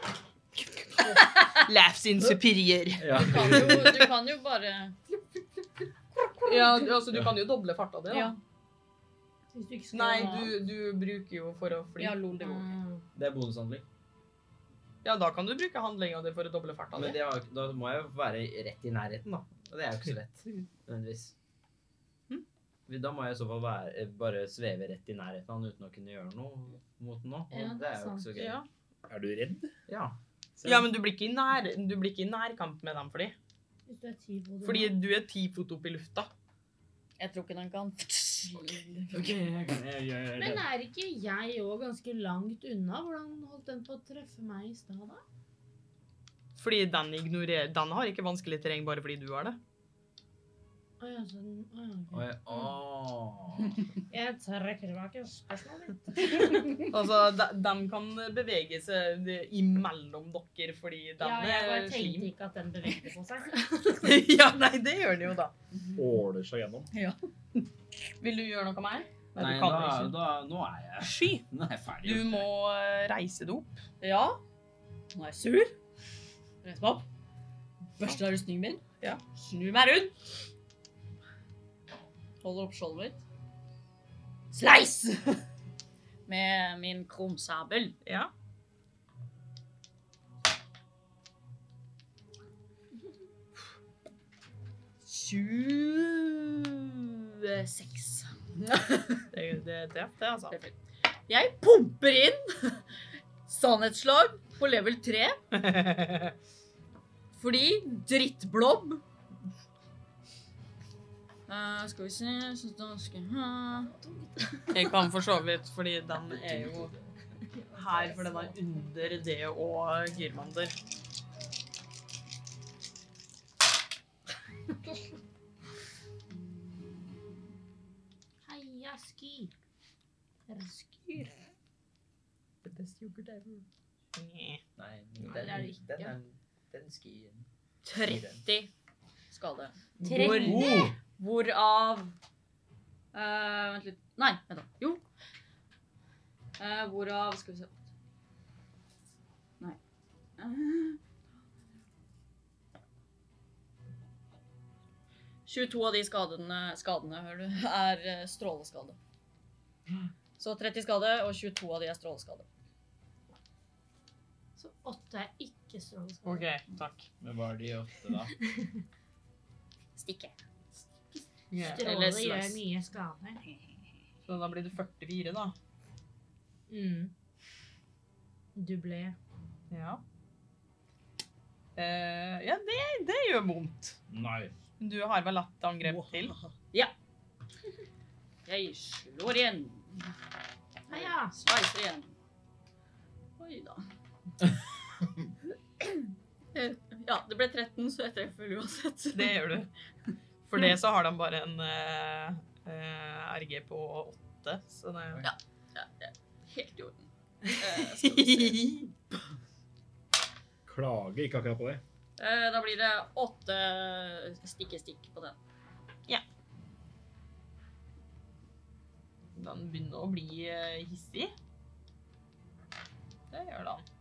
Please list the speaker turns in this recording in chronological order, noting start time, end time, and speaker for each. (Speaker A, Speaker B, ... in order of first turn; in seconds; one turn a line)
Speaker A: 0.9-4.1
Speaker B: 1.0-1.6
Speaker C: 3.0-4.0
Speaker B: 3.1-5.0
Speaker D: 6.2-6.9
Speaker A: 6.5-8.3
Speaker B: 8.1-8.4
Speaker D: 9.5-10.6
Speaker A: 9.9-12.5
Speaker B: 12.0-12.8
Speaker D: 12.4-13.0
Speaker C: 13.2-13.8
Speaker A: 15.0-17.2
Speaker C: 16.9-21.3
Speaker C: 22.9-28.6
Speaker D: 27.5-28.3
Speaker A: 28.3-28.7
Speaker E: 29.1-29.8
Speaker C: 29.9-30.2
Speaker A: 30.6-33.4
Speaker E: 30.6-30.9
Speaker D: 33.9-35.0
Speaker A: 34.6-36.3
Speaker B: 37.2-39.3
Speaker C: 39.1-40.6
Speaker D: 40.4-45.2
Speaker A: 46.6-49.6
Speaker D: 51.0-52.3
Speaker C: 52.1-53.8
Speaker D: 54.1-56.9
Speaker A: 56.9-62.3
Speaker D: 61.2-64.2
Speaker A: 63.9-65.5
Speaker E: 66.0-66.9
Speaker B: 66.9-67.2
Speaker A: 68.2-70.2
Speaker C: 69.4-72.5
Speaker A: 71.0-71.4
Speaker A: 72.0-73.8
Speaker B: 74.0-74.4
Speaker B: 75.1-75.8
Speaker B: 76.6-77.0
Speaker B: 78.0-78.8
Speaker B: 79.3-80.3
Speaker B: 82.4-83.2
Speaker B: 84.5-85.4
Speaker B: 86.3-88.0
Speaker A: 88.0-88.3
Speaker B: 95.0-99.3
Speaker A: 99.3-100.6
Speaker B: 100.5-100.8
Speaker B: 101.3-105.4
Speaker A: 105.5-106.3
Speaker B: 107.3-109.0
Speaker B: 111.5-113.9
Speaker D: 113.8-114.6
Speaker A: 114.7-116.9
Speaker C: 116.2-117.0
Speaker D: 117.5-118.8
Speaker A: 117.8-120.7
Speaker D: 128.4-129.5
Speaker D: 130.5-130.8
Speaker B: 132.7-133.6
Speaker A: 134.2-134.6
Speaker C: 134.8-137.5
Speaker D: 135.2-136.2
Speaker B: 137.8-138.7
Speaker C: 138.0-138.4
Speaker B: 139.3-142.1
Speaker A: 140.0-140.5
Speaker D: 140.0-140.9
Speaker C: 140.2-141.0
Speaker B: 143.1-145.0
Speaker B: 146.6-147.8
Speaker B: 150.4-151.0
Speaker B: 155.5-159.0
Speaker B: 160.4-162.5
Speaker D: 164.6-166.5
Speaker A: 166.2-167.1
Speaker C: 167.2-168.4
Speaker B: 170.0-170.4
Speaker B: 171.1-172.6
Speaker A: 171.5-171.9
Speaker D: 171.6-173.4
Speaker A: 174.2-175.6
Speaker D: 176.7-177.1
Speaker D: 178.6-179.2
Speaker A: 179.7-180.0
Speaker A: 181.8-184.0
Speaker C: 184.1-184.6
Speaker A: 184.8-186.3
Speaker B: 188.5-190.1
Speaker D: 190.9-191.4
Speaker B: 190.9-192.1
Speaker B: 193.4-193.9
Speaker B: 195.8-199.4
Speaker A: 199.1-199.7
Speaker A: 200.4-205.2
Speaker B: 205.2-208.8
Speaker A: 207.4-208.9
Speaker E: 210.7-211.8
Speaker B: 212.2-215.4
Speaker A: 219.4-221.3
Speaker A: 223.3-223.8